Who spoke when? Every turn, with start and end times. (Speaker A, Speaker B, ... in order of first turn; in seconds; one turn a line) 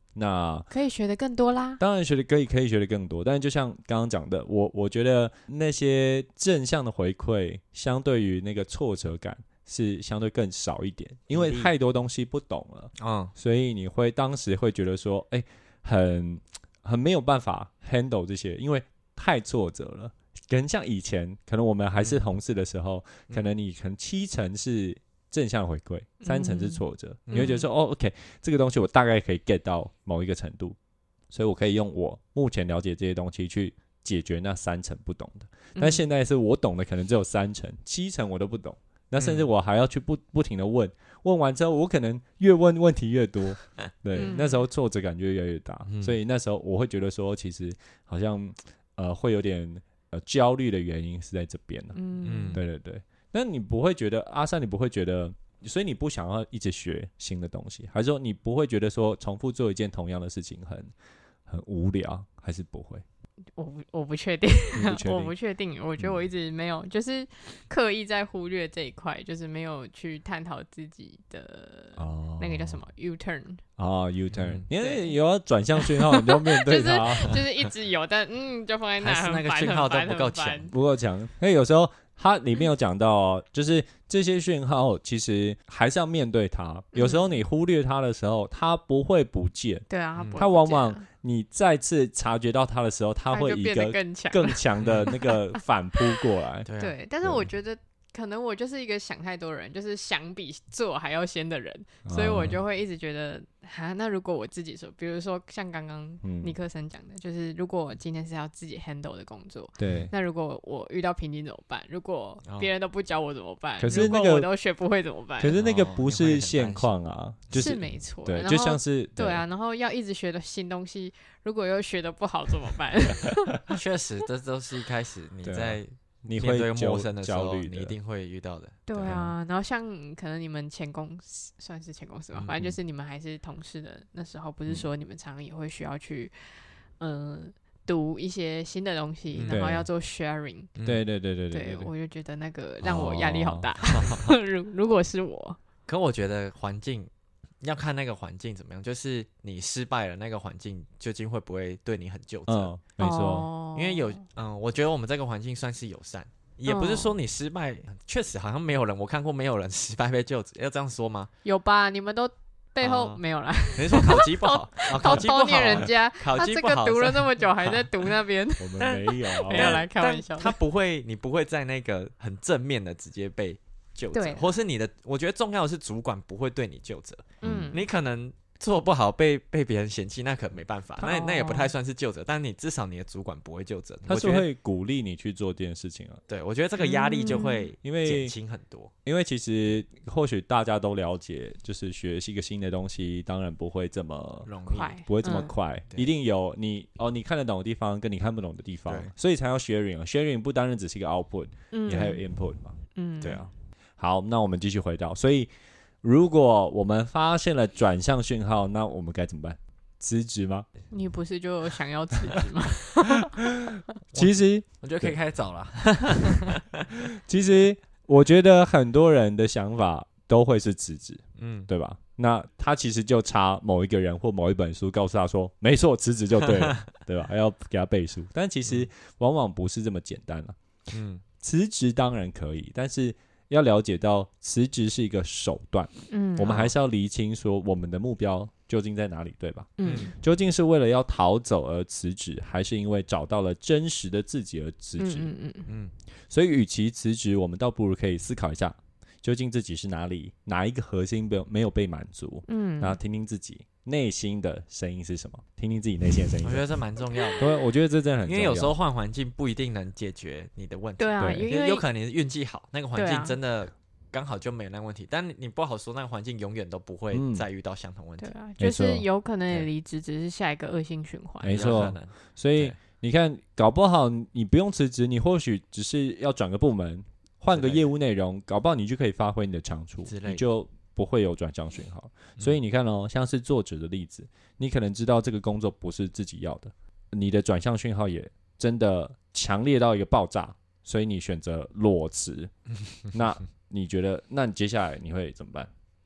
Speaker A: 0.1-0.7
Speaker B: 0.7-1.8
Speaker A: 1.8-30.8
Speaker C: 11.3-11.7
Speaker C: 13.0-13.3
Speaker B: 26.2-27.7
Speaker C: 27.3-27.5
Speaker A: 31.3-52.0
Speaker B: 35.7-36.0
Speaker C: 39.2-39.5
Speaker B: 44.1-44.6
Speaker C: 45.9-46.1
Speaker B: 51.9-52.6
Speaker C: 52.2-52.6
Speaker A: 52.5-60.9
Speaker A: 61.5-63.0
Speaker B: 63.5-73.6
Speaker A: 64.7-65.3
Speaker A: 66.0-66.3
Speaker A: 72.0-72.8
Speaker A: 73.8-77.4
Speaker C: 74.3-74.7
Speaker B: 74.8-75.2
Speaker B: 75.7-80.7
Speaker C: 79.0-80.7
Speaker A: 80.7-96.7
Speaker B: 86.9-87.3
Speaker B: 89.9-91.0
Speaker C: 90.2-90.4
Speaker B: 93.3-95.5
Speaker C: 94.8-95.1
Speaker C: 96.6-96.9
Speaker B: 96.8-115.6
Speaker A: 97.2-97.5
Speaker A: 102.0-102.6
Speaker A: 106.2-106.5
Speaker A: 109.8-110.1
Speaker C: 112.4-112.7
Speaker A: 113.8-114.5
Speaker A: 115.4-119.4
Speaker C: 115.5-116.9
Speaker B: 117.5-123.6
Speaker C: 123.7-129.2
Speaker A: 125.4-127.9
Speaker B: 128.9-136.3
Speaker A: 129.0-129.3
Speaker B: 137.0-140.7
Speaker C: 139.3-139.6
Speaker A: 139.5-139.9
Speaker C: 140.8-141.0
Speaker A: 140.8-141.9
Speaker B: 141.5-145.6
Speaker A: 142.8-143.7
Speaker C: 143.8-144.3
Speaker C: 145.8-147.1
Speaker C: 147.6-152.7
Speaker A: 152.5-153.5
Speaker B: 153.0-154.2
Speaker C: 153.7-161.3
Speaker B: 156.7-157.2
Speaker B: 161.4-170.6
Speaker C: 162.8-167.8
Speaker A: 168.6-169.8
Speaker C: 168.8-184.5
Speaker B: 174.1-174.5
Speaker A: 177.4-177.7
Speaker B: 177.4-177.8
Speaker B: 181.0-181.7
Speaker A: 184.1-186.2
Speaker C: 186.3-188.9
Speaker B: 186.8-187.7
Speaker A: 187.8-188.3
Speaker A: 189.0-205.5
Speaker C: 194.4-196.1
Speaker B: 194.7-195.5
Speaker C: 198.9-199.1
Speaker B: 201.7-203.4
Speaker A: 206.0-210.7
Speaker B: 210.9-213.4
Speaker A: 213.6-215.2
Speaker C: 214.1-216.8
Speaker A: 217.0-230.6
Speaker C: 221.4-221.7
Speaker C: 226.6-226.8
Speaker C: 230.9-231.2
Speaker A: 231.4-245.3
Speaker B: 236.1-236.6
Speaker C: 236.4-236.7
Speaker B: 239.8-240.1
Speaker C: 239.8-240.1
Speaker B: 245.0-245.7
Speaker C: 245.7-245.9
Speaker A: 246.3-256.7
Speaker B: 252.5-253.0
Speaker C: 256.4-257.5
Speaker A: 257.4-258.7
Speaker C: 258.2-268.3
Speaker B: 261.0-261.9
Speaker A: 261.2-261.5
Speaker B: 262.9-263.4
Speaker A: 267.1-267.4
Speaker B: 268.2-271.6
Speaker A: 268.6-269.1
Speaker A: 271.4-292.5
Speaker C: 271.4-272.8
Speaker C: 277.5-277.9
Speaker C: 280.0-280.4
Speaker A: 293.1-295.7